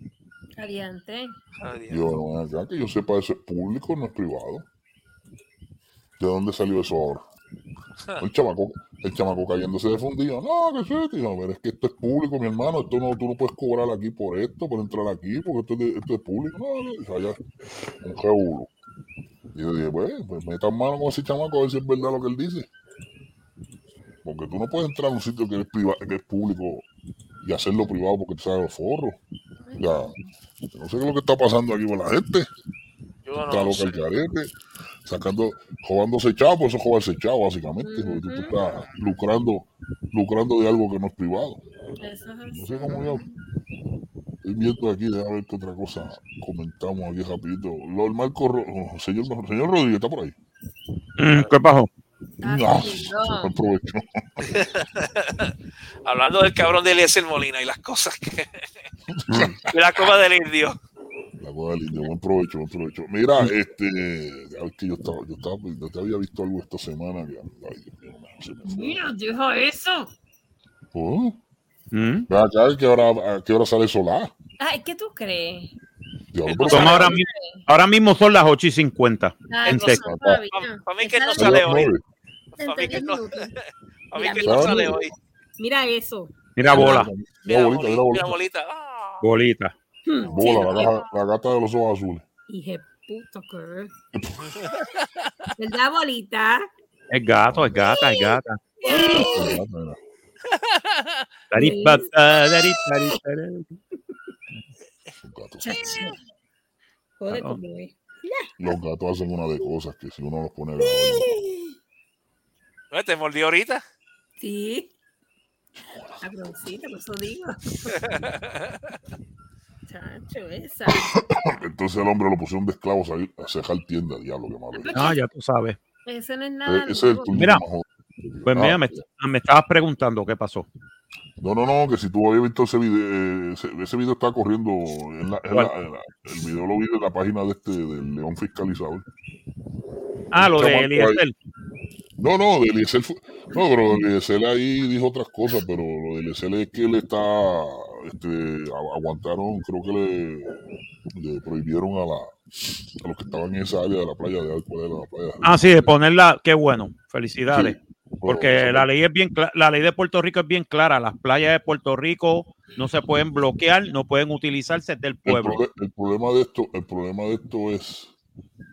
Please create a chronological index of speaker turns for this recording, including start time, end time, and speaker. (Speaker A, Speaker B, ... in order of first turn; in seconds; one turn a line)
Speaker A: 0.6-1.4
Speaker B: 1.6-2.2
Speaker C: 1.9-4.7
Speaker C: 6.2-7.2
Speaker C: 8.2-17.4
Speaker C: 18.0-18.7
Speaker C: 19.5-22.7
Speaker C: 24.2-26.9
Speaker C: 27.4-29.2
Speaker A: 29.7-30.2
Speaker C: 29.8-30.1
Speaker C: 30.7-32.5
Speaker B: 33.3-34.0
Speaker C: 33.4-34.5
Speaker C: 35.0-41.6
Speaker A: 37.8-38.6
Speaker A: 42.0-43.2
Speaker C: 42.5-43.2
Speaker B: 42.8-43.2
Speaker C: 44.4-50.4
Speaker D: 51.2-51.9
Speaker A: 52.4-53.5
Speaker C: 52.4-54.6
Speaker B: 54.5-55.5
Speaker B: 56.1-58.7
Speaker C: 59.1-59.7
Speaker B: 59.7-60.8
Speaker C: 61.4-69.0
Speaker A: 68.7-70.1
Speaker C: 70.9-71.4
Speaker D: 71.9-72.3
Speaker C: 72.3-74.3
Speaker A: 74.6-75.7
Speaker C: 76.3-77.2
Speaker B: 76.5-77.1
Speaker A: 76.6-77.6
Speaker D: 76.7-80.0
Speaker A: 79.5-81.6
Speaker B: 79.7-81.9
Speaker C: 79.9-80.4
Speaker C: 81.4-82.0
Speaker A: 82.6-83.5
Speaker B: 82.6-83.5
Speaker B: 84.1-85.1
Speaker A: 84.2-85.0
Speaker C: 84.4-85.1
Speaker A: 85.6-87.1
Speaker D: 86.6-87.1
Speaker C: 86.7-88.4
Speaker B: 87.5-89.2
Speaker D: 89.2-89.7
Speaker A: 90.1-91.1
Speaker C: 90.2-92.2
Speaker A: 92.5-93.9
Speaker C: 94.1-94.5
Speaker B: 94.5-95.0
Speaker A: 95.5-96.7
Speaker D: 97.1-98.6
Speaker C: 97.5-97.7
Speaker A: 97.9-99.6
Speaker C: 99.1-100.0
Speaker B: 100.5-101.3
Speaker D: 101.5-103.7
Speaker A: 101.5-102.1
Speaker C: 105.2-106.1
Speaker A: 105.6-106.2
Speaker A: 107.2-108.5
Speaker D: 107.3-107.6
Speaker C: 108.6-111.3
Speaker A: 110.8-111.7
Speaker B: 112.9-113.8
Speaker A: 114.4-114.9
Speaker A: 116.2-118.3
Speaker A: 119.9-121.2
Speaker C: 120.9-125.1
Speaker A: 124.8-125.2
Speaker D: 125.0-125.8
Speaker A: 126.1-127.3
Speaker C: 126.7-129.0
Speaker D: 127.3-127.6
Speaker D: 128.5-130.7
Speaker C: 131.4-139.1
Speaker D: 140.3-141.3
Speaker C: 140.3-141.2
Speaker C: 142.2-155.9
Speaker D: 155.4-165.6
Speaker C: 157.5-158.9
Speaker C: 165.3-168.1